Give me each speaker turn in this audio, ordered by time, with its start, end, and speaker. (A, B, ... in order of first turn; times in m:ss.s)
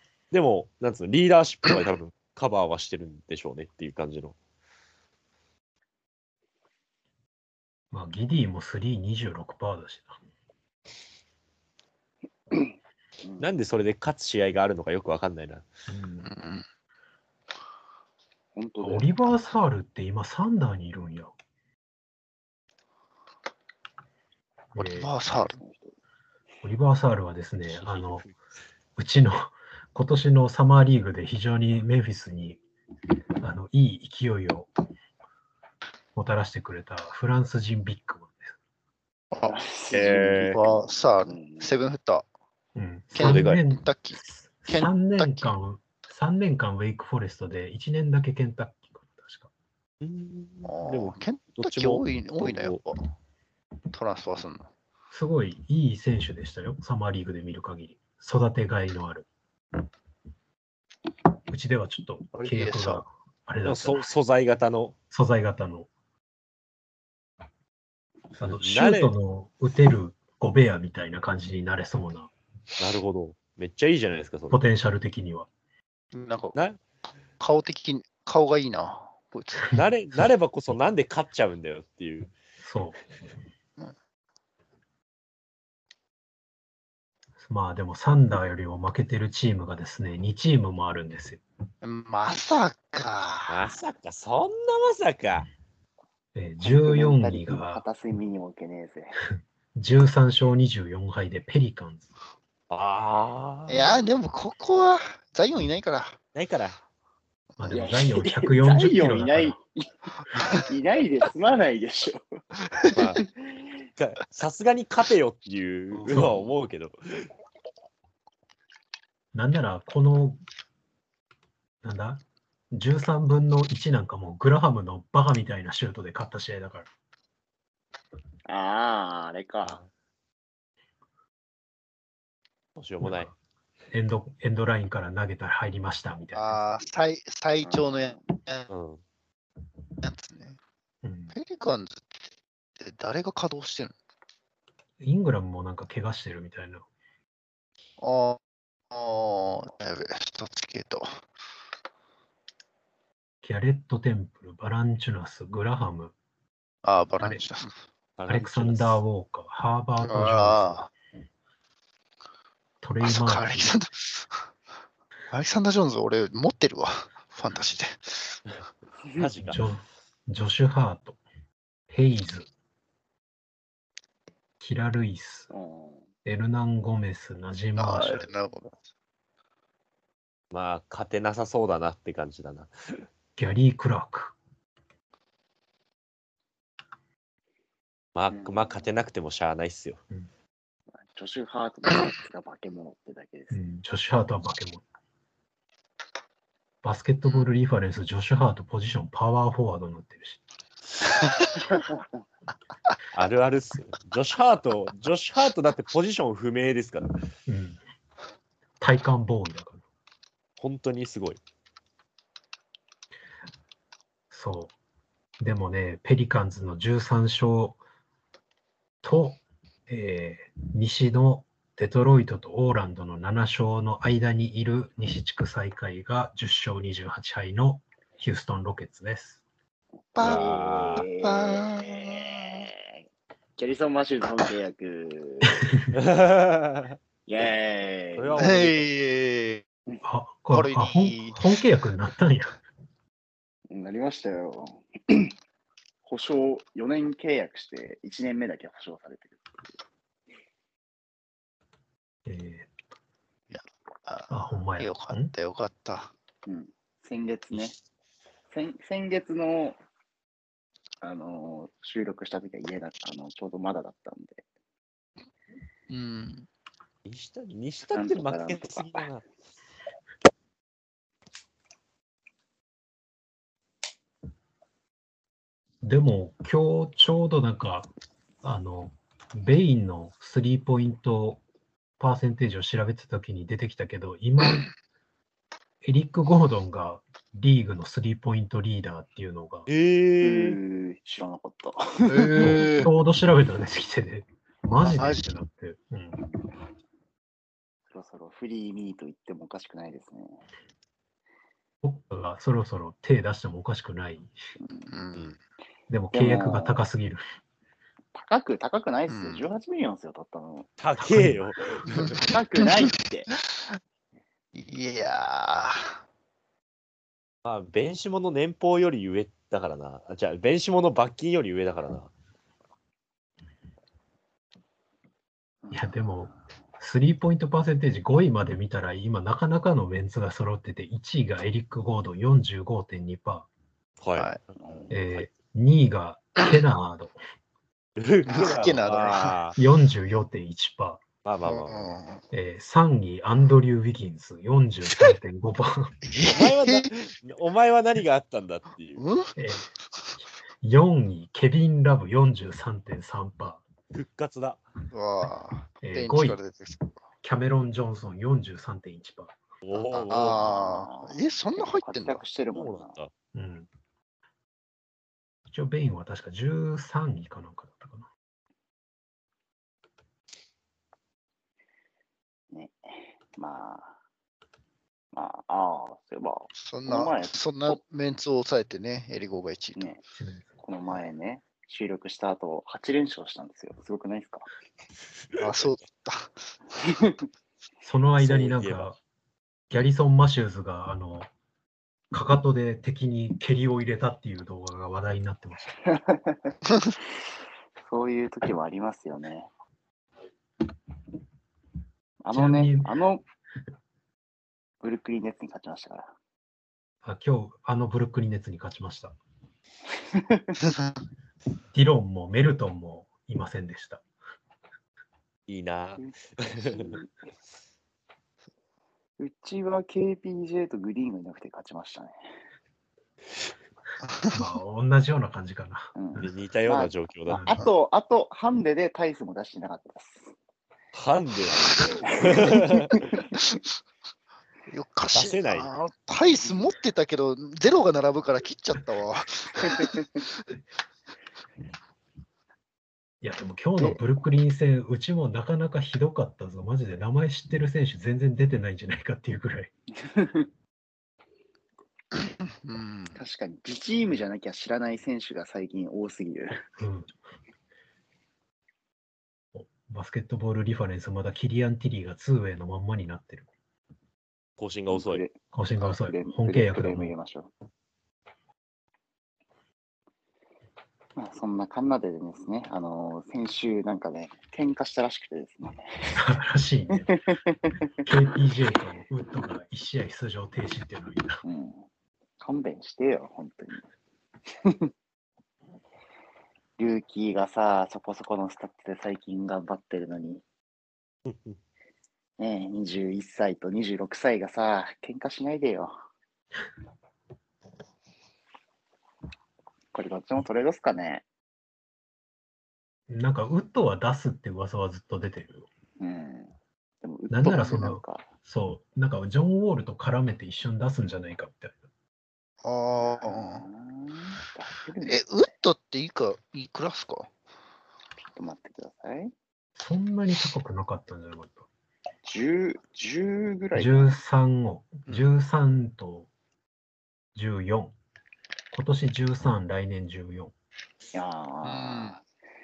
0:00.3-0:04.4 A
0:07.9-0:10.2 B
0:13.4-0:15.7 A
0:15.9-0:16.3 B
0:16.2-0:16.6 C
0:18.6-0:19.3 D
0:18.8-0:21.3 B
0:24.7-0:25.1 B
0:24.8-0:25.6 C
0:25.5-0:25.9 D
0:26.6-0:28.3 B
0:27.7-0:28.4 A
0:29.0-0:32.6 B
0:33.4-0:34.7 B
0:36.2-0:38.6 B
0:39.5-0:41.8 D
0:39.9-0:40.6 A
0:40.4-0:42.3 C
0:42.8-0:49.5 B
0:43.1-0:45.5 C
0:43.2-0:43.6 A
0:50.0-0:52.8 A
0:50.6-0:53.0 C
0:53.9-0:54.7 C
0:55.1-0:59.3 B
1:01.5-1:04.1 B
1:02.3-1:03.0 C
1:03.6-1:05.0 A
1:05.1-1:05.9 B
1:08.4-1:12.3 B
1:08.4-1:09.1 A
1:12.8-1:14.6 A
1:14.5-1:15.5 B
1:16.1-1:16.6 C
1:17.4-1:19.8 C
1:19.7-1:22.3 A
1:22.6-1:23.0 B
1:27.4-1:31.4 B
1:31.8-1:33.7 C
1:33.5-1:35.5 A
1:36.4-1:37.8 B
1:36.6-1:39.2 D
1:39.7-1:42.1 B
1:42.7-1:44.0 A
1:43.7-1:46.2 C
1:46.4-1:46.8 A
1:47.6-1:49.6 B
1:47.7-1:52.2 D
1:53.0-1:53.2 A
1:53.4-1:53.7 D
1:54.0-1:57.3 A
1:56.0-1:56.3 C
1:56.0-1:56.4 B
1:59.3-2:00.4 B
2:01.8-2:06.9 B
2:08.5-2:09.8 D
2:12.8-2:13.3 A
2:13.0-2:13.3 B
2:13.9-2:16.8 B
2:16.3-2:18.7 C
2:17.6-2:18.2 D
2:18.7-2:19.0 A
2:20.0-2:20.6 C
2:21.0-2:21.4 B
2:21.3-2:22.1 C
2:22.8-2:23.9 C
2:25.0-2:26.9 B
2:28.0-2:28.4 C
2:28.9-2:31.1 C
2:33.4-2:36.1 B
2:36.8-2:37.7 C
2:38.2-2:39.0 A
2:38.3-2:40.8 B
2:40.0-2:40.9 C
2:42.8-2:43.7 B
2:43.0-2:44.3 C
2:45.3-2:48.4 C
2:49.2-2:49.6 A
2:49.4-2:51.2 B
2:51.9-2:52.5 B
2:54.6-2:55.5 B
2:55.5-2:56.1 D
2:56.2-2:58.3 B
2:57.8-2:58.8 C
3:00.5-3:03.0 A
3:03.4-3:04.4 B
3:08.2-3:10.0 A
3:08.3-3:08.9 D
3:11.1-3:13.6 D
3:13.5-3:14.8 B
3:16.8-3:20.4 B
3:23.1-3:27.3 A
3:27.5-3:27.8 B
3:28.8-3:29.8 B
3:30.6-3:31.4 A
3:34.3-3:34.7 B
3:35.4-3:37.8 B
3:39.0-3:49.4 B
3:50.2-3:52.5 C
3:50.2-3:53.0 D
3:50.2-3:51.1 A
3:53.6-3:55.5 D
3:55.6-3:55.9 B
3:55.9-3:57.0 A
3:57.3-3:58.5 D
3:58.2-3:58.9 A
3:58.4-3:59.6 C
4:00.0-4:02.6 B
4:00.5-4:01.4 C
4:03.7-4:05.3 D
4:06.0-4:09.4 D
4:12.3-4:12.7 B
4:13.5-4:16.1 C
4:14.3-4:15.3 B
4:16.5-4:17.7 D
4:18.5-4:19.8 D
4:21.0-4:24.4 D
4:25.9-4:26.5 C
4:27.0-4:29.2 A
4:27.9-4:29.1 D
4:35.8-4:37.9 B
4:38.4-4:41.4 B
4:42.0-4:44.7 B
4:45.8-4:49.7 B
4:49.7-4:50.6 A
4:50.2-4:52.6 D
4:52.1-4:52.9 C
4:52.4-4:56.2 B
4:54.8-4:55.3 C
4:57.9-5:00.4 D
5:01.8-5:04.3 B
5:04.6-5:04.9 D
5:04.9-5:05.4 C
5:05.9-5:07.2 B
5:06.1-5:06.8 D
5:08.1-5:10.7 D
5:09.1-5:09.5 C
5:10.8-5:12.3 A
5:11.0-5:11.4 B
5:11.9-5:12.9 C
5:12.3-5:13.3 D
5:14.6-5:16.0 C
5:17.4-5:22.1 A
5:25.6-5:26.4 D
5:25.7-5:33.5 B
5:34.0-5:35.2 A
5:34.6-5:35.0 D
5:34.9-5:37.2 B
5:38.0-5:39.6 A
5:38.3-5:39.4 C
5:39.6-5:41.0 B
5:41.2-5:41.9 A
5:41.4-5:42.2 C
5:42.3-5:46.0 B
5:46.0-5:46.9 C
5:46.2-5:49.0 A
5:49.0-5:49.3 C
5:49.4-5:49.7 B
5:50.6-5:53.6 B
5:53.9-5:54.6 A
5:54.9-5:57.0 C
5:55.8-5:56.4 B
5:57.2-5:59.4 B
5:59.6-6:00.4 A
5:59.8-6:02.2 C
6:00.3-6:03.0 D
6:02.5-6:03.1 A
6:03.3-6:03.7 B
6:05.5-6:08.1 B
6:12.5-6:14.0 D
6:15.1-6:17.8 D
6:16.6-6:19.9 C
6:20.2-6:20.6 B
6:20.6-6:24.5 D
6:25.4-6:26.3 C
6:25.4-6:25.6 A
6:27.8-6:29.0 B
6:28.2-6:28.9 A
6:29.7-6:31.3 B
6:32.1-6:35.8 B
6:35.9-6:36.6 D
6:37.9-6:39.5 D
6:42.2-6:43.2 D
6:42.3-6:42.9 B
6:44.8-6:46.1 D
6:47.0-6:49.2 B
6:50.1-6:50.6 D
6:51.7-6:54.0 B
6:55.5-6:57.0 A
6:56.0-6:57.1 D
6:59.2-7:02.2 D
7:04.0-7:04.4 C
7:04.3-7:06.3 B
7:06.0-7:10.3 D
7:06.2-7:07.4 A
7:07.3-7:07.7 B
7:10.9-7:13.0 A
7:12.0-7:13.1 D
7:13.4-7:13.6 C
7:14.7-7:20.2 C
7:15.1-7:15.7 A
7:23.2-7:29.7 B
7:30.0-7:30.5 D
7:32.6-7:33.2 C
7:33.1-7:36.6 D
7:36.8-7:37.1 B
7:39.5-7:43.5 B
7:44.6-7:45.2 A
7:44.9-7:47.5 D
7:45.5-7:47.1 B
7:51.2-7:56.2 D
7:56.2-7:57.1 B
7:57.0-7:58.0 D
7:58.0-8:01.4 B
8:01.4-8:01.9 D
8:02.4-8:03.8 D
8:04.6-8:04.9 D
8:06.8-8:10.4 D
8:11.3-8:11.6 A
8:12.4-8:15.9 D
8:19.9-8:21.2 D
8:23.1-8:25.7 B
8:26.0-8:28.3 D
8:27.3-8:31.8 B
8:32.6-8:33.7 C
8:33.0-8:35.2 D
8:35.0-8:37.3 C
8:38.2-8:39.3 D
8:39.8-8:41.7 B
8:42.2-8:44.2 D
8:43.8-8:46.3 B
8:47.4-8:47.9 B
8:48.7-8:50.5 B
8:51.1-8:52.2 D
8:51.6-8:52.2 C